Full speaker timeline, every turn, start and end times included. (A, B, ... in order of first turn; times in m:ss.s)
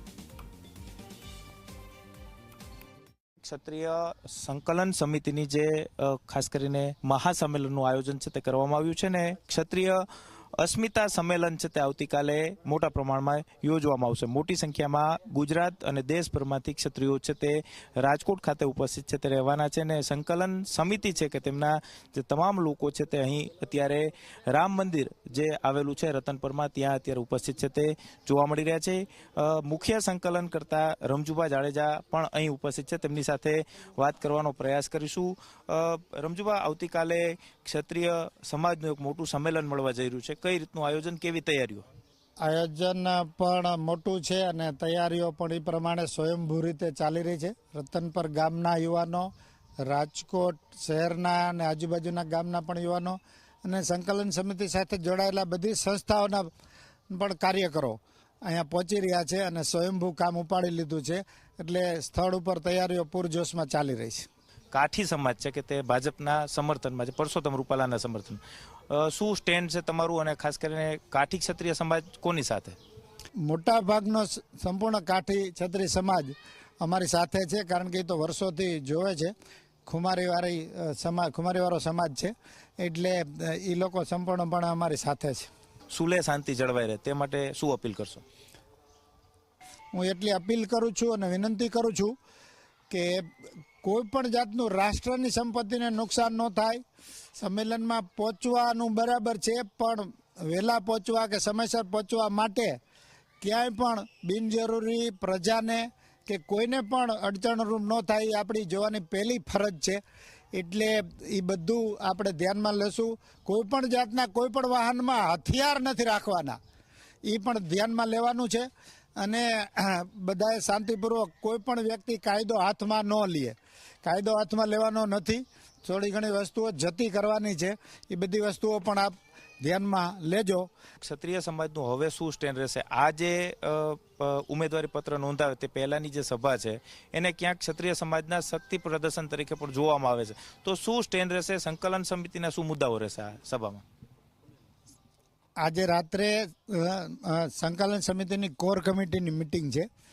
0:03.4-0:10.0 A
0:10.6-0:41.8 A
0:42.4-0:49.3 B
0:49.9-0:56.5 B
0:57.1-1:04.3 B
1:04.7-1:12.8 A
1:13.5-1:19.3 B
1:19.9-1:25.5 B
1:25.9-1:28.2 A
1:30.0-1:32.1 B
1:32.9-1:33.3 B
1:33.8-1:36.8 B
1:37.4-1:42.8 B
1:43.4-1:50.0 B
1:50.5-1:56.6 B
1:57.3-2:10.7 B
2:11.0-2:23.8 A
2:25.6-2:29.9 B